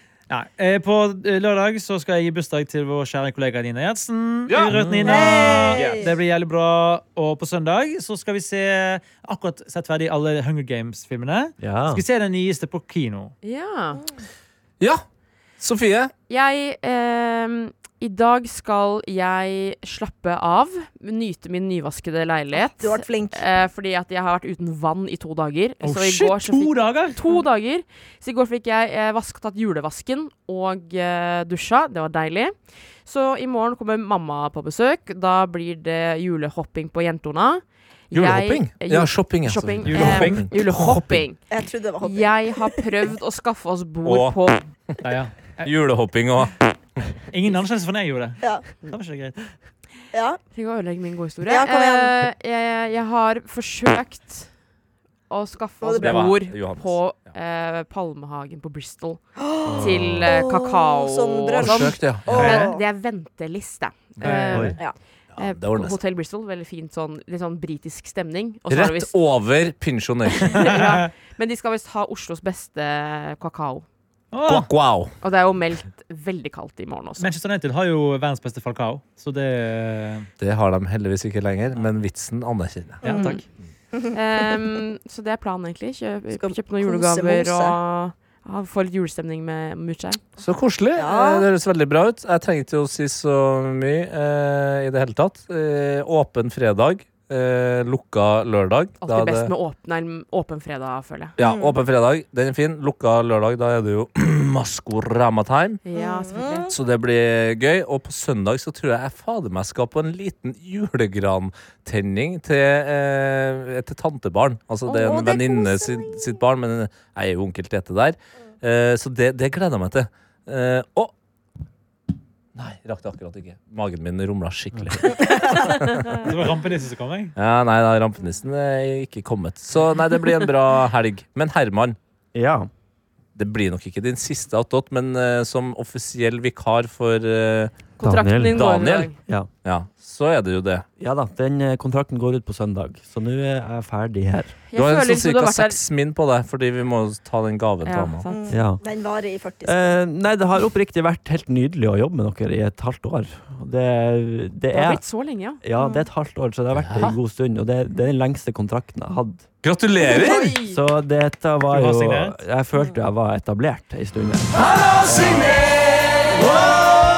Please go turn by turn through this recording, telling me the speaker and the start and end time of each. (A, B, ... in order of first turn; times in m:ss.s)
0:00.3-0:13.3 A
0:04.6-0:05.5 B
0:05.0-0:06.1 C
0:11.6-0:12.0 B
0:13.4-0:14.0 D
0:15.6-0:16.1 E
0:16.3-0:41.5 D
0:22.5-0:23.4 C
0:25.8-0:27.2 A
0:38.1-0:41.2 E
0:39.9-0:40.4 A
0:41.5-0:42.7 C
0:42.0-0:44.6 D
0:44.0-0:44.4 E
0:45.0-0:45.7 A
0:45.6-0:46.6 E
0:47.3-0:49.4 A
0:50.1-0:50.4 C
0:50.5-0:54.5 D
0:51.5-0:52.2 C
0:55.3-0:59.2 D
0:55.8-0:56.4 C
0:56.0-0:57.0 E
0:59.4-1:02.8 C
0:59.7-1:00.3 B
0:59.8-1:09.1 D
1:01.6-1:02.6 E
1:04.2-1:04.5 E
1:04.2-1:04.8 A
1:05.3-1:06.0 E
1:08.7-1:10.8 E
1:10.4-1:13.9 D
1:10.5-1:11.1 A
1:14.3-1:14.7 A
1:14.5-1:15.1 E
1:15.2-1:17.3 D
1:17.2-1:20.3 A
1:20.4-1:23.3 E
1:23.0-1:23.4 C
1:23.1-1:23.4 D
1:24.1-1:30.2 D
1:26.3-1:27.8 C
1:30.4-1:39.5 E
1:31.0-1:31.5 C
1:39.0-1:41.3 D
1:41.4-1:45.8 E
1:41.4-1:41.8 C
1:45.8-1:46.7 D
1:46.0-1:46.8 C
1:46.7-2:01.1 E
1:54.9-1:56.4 C
2:02.6-2:06.3 E
2:06.2-2:07.3 A
2:07.4-2:12.0 E
2:12.3-2:12.7 B
2:13.4-2:17.7 E
2:18.0-2:19.2 D
2:18.0-2:18.7 B
2:18.5-2:19.1 E
2:19.6-2:20.8 E
2:21.0-2:24.6 B
2:24.7-2:25.8 D
2:24.8-2:28.2 E
2:27.8-2:28.6 D
2:28.3-2:29.9 C
2:28.5-2:28.8 B
2:29.6-2:35.0 B
2:34.7-2:35.6 D
2:35.6-2:39.5 B
2:35.8-2:36.0 C
2:36.8-2:37.2 E
2:39.6-2:40.6 E
2:40.0-2:40.8 C
2:40.7-2:45.3 B
2:41.7-2:42.4 A
2:44.9-2:45.6 E